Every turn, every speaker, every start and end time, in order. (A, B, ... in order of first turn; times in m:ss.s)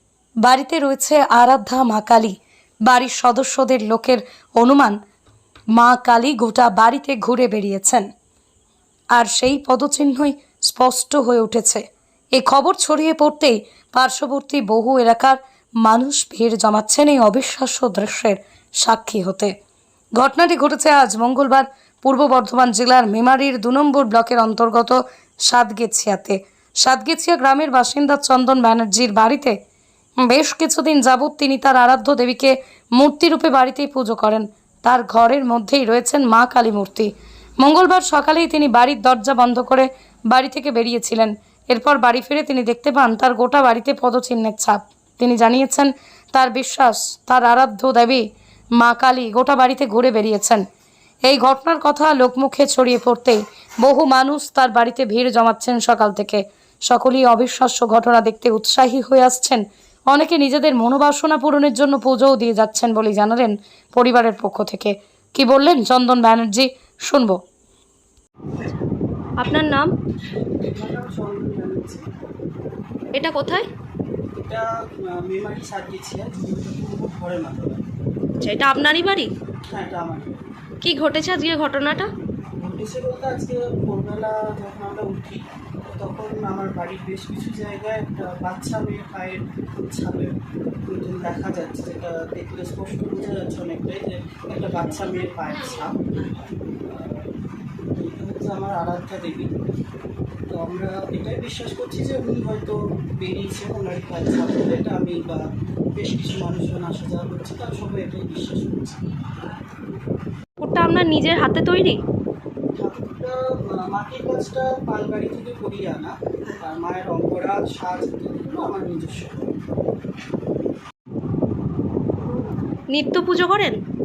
0:00.4-0:05.0 A
0:05.7-0:08.1 A
0:09.1-0:11.8 A
0:12.3-0:19.5 A
0:20.2-0:29.5 A
0:30.2-0:48.2 A
0:48.8-0:50.6 A
0:51.2-1:07.4 A
1:09.4-1:09.9 B
1:10.6-1:12.0 C
1:13.1-1:13.7 B
1:14.4-1:17.8 C
1:18.4-1:19.3 B
1:19.7-1:20.5 C
1:20.8-1:22.1 B
1:22.6-1:30.3 C
1:30.8-1:37.3 C
1:37.9-1:39.5 C
1:40.5-1:49.0 C
1:50.6-1:52.0 B
1:52.7-1:59.6 C
2:02.9-2:03.8 B